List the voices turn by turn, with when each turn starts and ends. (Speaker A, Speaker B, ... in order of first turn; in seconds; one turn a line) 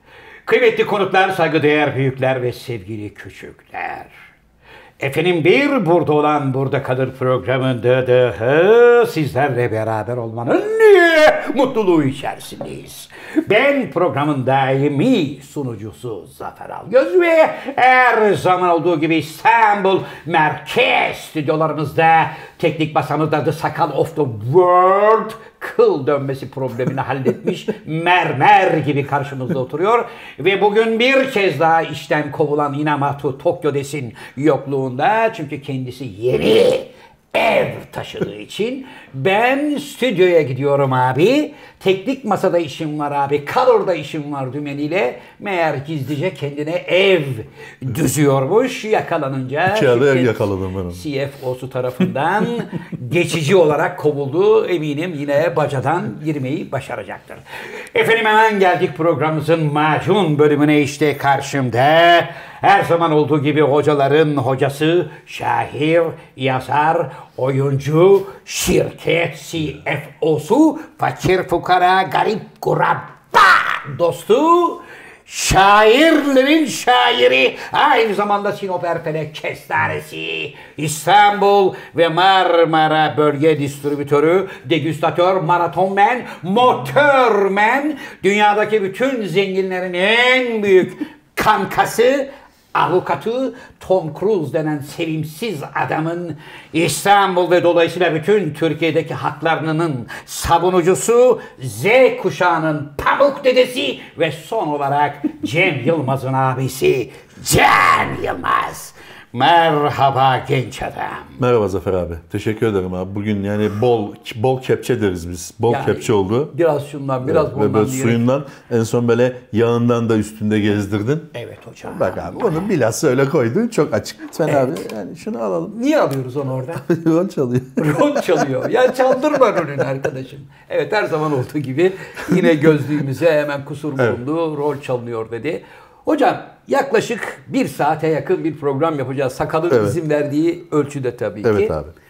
Speaker A: 0.5-4.1
Speaker A: 5.0-50.4
Speaker B: 49.7-51.0
Speaker A: 50.9-111.4
Speaker B: 111.4-116.5
Speaker A: 115.7-118.2
Speaker B: 117.2-121.3
Speaker A: 121.3-122.7
Speaker B: 121.8-125.8
Speaker A: 124.5-124.7
Speaker A: 125.7-126.8
Speaker B: 126.8-128.4
Speaker A: 127.8-141.7
Speaker B: 139.7-140.0
Speaker B: 141.4-141.9